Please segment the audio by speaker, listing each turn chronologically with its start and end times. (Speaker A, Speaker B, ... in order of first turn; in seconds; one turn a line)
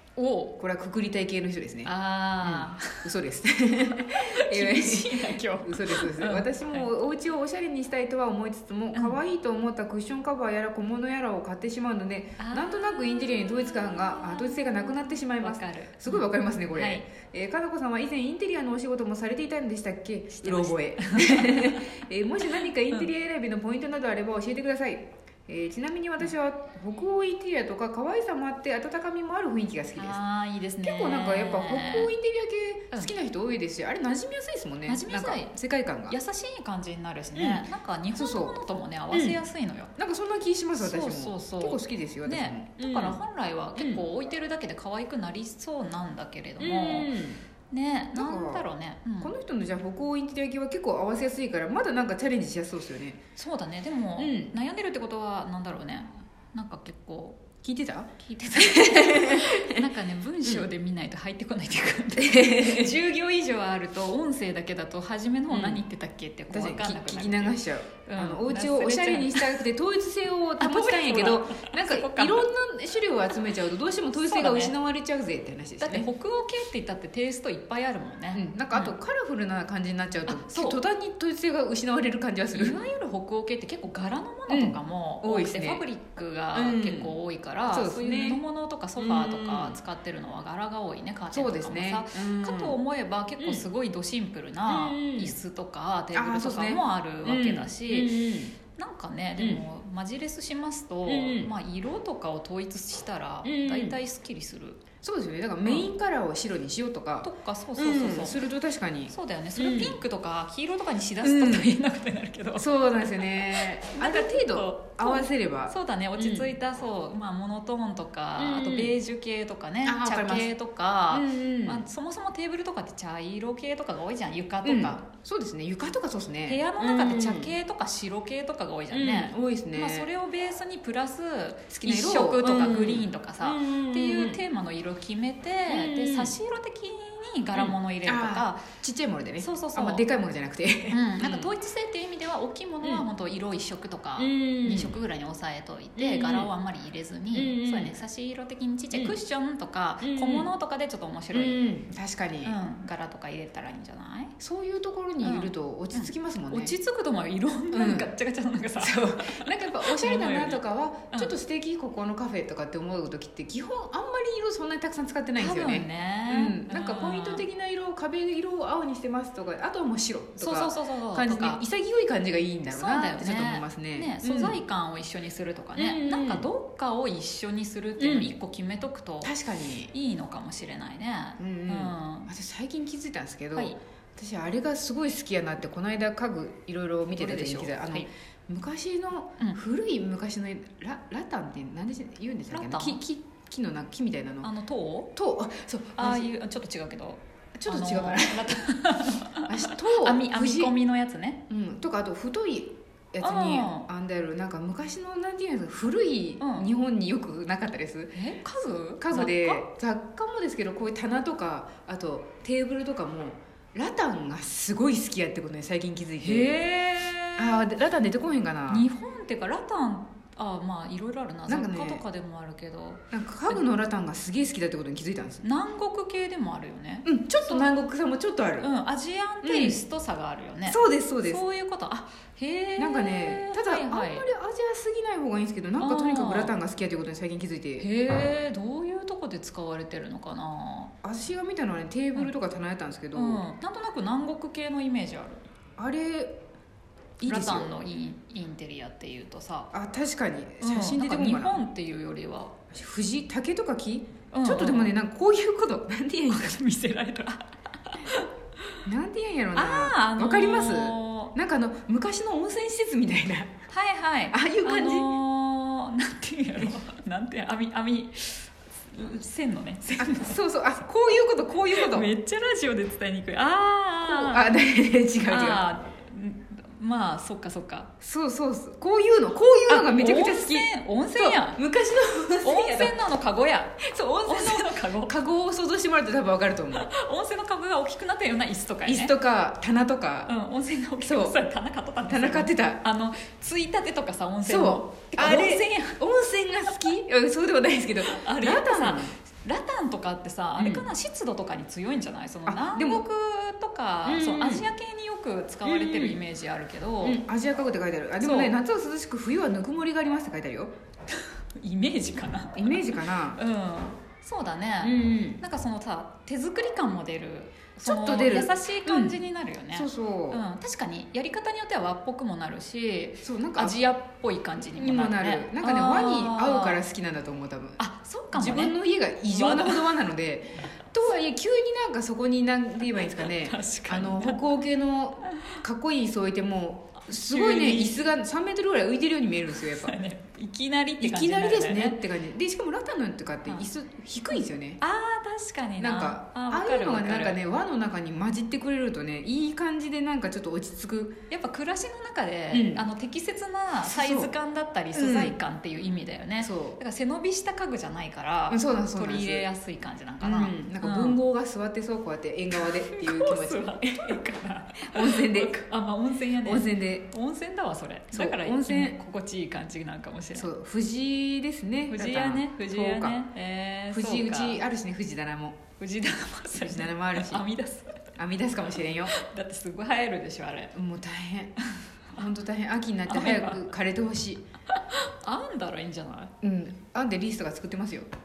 Speaker A: 0.1-0.5
Speaker B: 0.6-1.9
Speaker A: 1.8-3.1
Speaker B: 2.4-30.2
Speaker A: 3.9-6.9
Speaker A: 8.9-9.2
Speaker A: 12.4-12.7
Speaker A: 14.1-14.6
Speaker A: 15.4-17.0
Speaker A: 20.4-21.9
Speaker A: 22.5-23.1
Speaker A: 29.9-32.1
Speaker B: 30.8-36.2
Speaker A: 34.9-35.5
Speaker A: 36.1-39.9
Speaker B: 37.3-38.6
Speaker B: 39.1-39.4
Speaker B: 40.0-43.2
Speaker A: 40.8-47.1
Speaker B: 43.8-44.0
Speaker B: 46.6-47.4
Speaker A: 47.7-49.3
Speaker B: 48.1-48.6
Speaker B: 49.2-53.2
Speaker A: 53.4-57.4
Speaker B: 54.2-54.5
Speaker B: 57.6-59.8
Speaker A: 58.2-69.6
Speaker B: 62.2-62.9
Speaker B: 65.5-65.8
Speaker B: 66.5-76.1
Speaker A: 70.6-72.5
Speaker A: 74.1-74.8
Speaker A: 75.8-78.9
Speaker B: 78.3-82.8
Speaker A: 80.3-80.8
Speaker A: 82.5-98.1
Speaker B: 84.5-85.8
Speaker B: 86.5-87.2
Speaker B: 87.7-88.4
Speaker B: 89.0-89.8
Speaker B: 91.3-92.8
Speaker B: 93.4-93.7
Speaker B: 94.7-95.3
Speaker B: 96.1-98.5
Speaker A: 98.7-104.8
Speaker B: 99.4-99.6
Speaker B: 101.1-101.5
Speaker B: 103.4-104.0
Speaker B: 105.0-110.0
Speaker A: 107.2-108.4
Speaker A: 109.1-112.7
Speaker B: 111.2-111.7
Speaker B: 112.5-116.5
Speaker A: 113.2-125.0
Speaker B: 118.4-119.0
Speaker B: 119.8-120.5
Speaker B: 121.1-121.8
Speaker B: 124.6-127.5
Speaker A: 126.5-138.7
Speaker B: 128.9-130.1
Speaker B: 131.7-134.4
Speaker B: 135.7-136.3
Speaker B: 137.5-141.5
Speaker A: 139.4-140.0
Speaker A: 140.9-151.6
Speaker B: 144.2-145.0
Speaker B: 146.0-146.5
Speaker B: 147.3-148.0
Speaker B: 150.0-150.5
Speaker B: 151.3-152.6
Speaker A: 152.4-154.3
Speaker B: 154.4-156.7
Speaker A: 155.2-160.6
Speaker B: 157.7-158.1
Speaker B: 158.8-174.6
Speaker A: 165.4-167.4
Speaker A: 170.4-171.6
Speaker A: 172.7-179.3
Speaker B: 175.7-176.5
Speaker B: 178.0-178.3
Speaker B: 179.2-179.9
Speaker A: 179.9-182.3
Speaker B: 181.4-194.5
Speaker A: 187.2-188.1
Speaker A: 192.5-193.0
Speaker A: 194.4-195.1
Speaker B: 195.1-196.3
Speaker A: 196.0-201.4
Speaker B: 197.6-198.7
Speaker B: 199.4-200.7
Speaker B: 201.5-208.3
Speaker A: 203.2-203.9
Speaker A: 206.4-206.7
Speaker A: 208.1-209.7
Speaker B: 209.0-216.6
Speaker A: 216.2-217.7
Speaker B: 217.3-218.9
Speaker A: 218.7-223.6
Speaker B: 221.5-222.0
Speaker B: 223.1-225.4
Speaker A: 225.4-227.7
Speaker B: 227.0-228.7
Speaker A: 228.6-234.3
Speaker B: 229.4-229.8
Speaker B: 230.7-231.4
Speaker B: 232.8-237.9
Speaker A: 235.8-236.5
Speaker A: 237.8-240.9
Speaker B: 241.0-243.4
Speaker A: 243.1-245.4
Speaker B: 245.8-246.3
Speaker B: 247.2-247.7
Speaker A: 247.2-249.7
Speaker B: 249.7-251.6
Speaker A: 250.6-252.6
Speaker B: 252.7-256.6
Speaker A: 254.3-254.9
Speaker A: 256.3-258.3
Speaker B: 258.8-263.5
Speaker A: 259.5-261.3
Speaker A: 263.7-270.4
Speaker B: 264.3-265.1
Speaker B: 269.9-272.1
Speaker A: 271.7-274.5
Speaker B: 274.0-275.6
Speaker A: 275.2-277.9
Speaker B: 278.0-282.9
Speaker A: 279.7-281.6
Speaker A: 282.4-285.2
Speaker B: 283.8-286.9
Speaker A: 286.7-289.1
Speaker B: 288.8-290.3
Speaker A: 290.3-296.0
Speaker B: 291.0-291.4
Speaker B: 292.0-292.8
Speaker B: 294.4-299.2
Speaker A: 298.1-307.2
Speaker B: 300.6-300.9
Speaker B: 302.4-303.0
Speaker B: 304.0-304.7
Speaker B: 305.6-306.2
Speaker B: 307.0-310.7
Speaker A: 308.2-308.5
Speaker A: 311.6-326.8
Speaker B: 312.5-313.4
Speaker B: 314.8-315.4
Speaker B: 317.8-319.2
Speaker B: 319.7-320.4
Speaker B: 323.2-323.9
Speaker B: 324.7-327.8
Speaker A: 327.8-328.8
Speaker B: 328.3-340.0
Speaker A: 329.3-329.9
Speaker A: 333.0-334.4
Speaker A: 335.3-335.6
Speaker A: 337.0-338.0
Speaker A: 339.5-342.0
Speaker B: 341.0-344.8
Speaker A: 344.3-347.4
Speaker B: 345.8-351.1
Speaker A: 351.3-361.2
Speaker B: 352.5-352.9
Speaker B: 353.8-354.3
Speaker B: 354.9-355.4
Speaker B: 356.4-356.8
Speaker B: 358.5-359.5
Speaker B: 360.2-364.2
Speaker A: 362.5-370.5
Speaker B: 364.8-365.6
Speaker B: 366.4-367.1
Speaker B: 368.1-369.0
Speaker B: 370.3-373.2
Speaker A: 371.9-374.6
Speaker B: 373.9-375.6
Speaker A: 375.8-378.1
Speaker B: 376.6-377.4
Speaker B: 378.2-379.1
Speaker A: 379.1-380.7
Speaker B: 380.7-381.5
Speaker B: 382.1-384.4
Speaker A: 383.1-383.7
Speaker A: 384.7-386.3
Speaker B: 386.4-388.1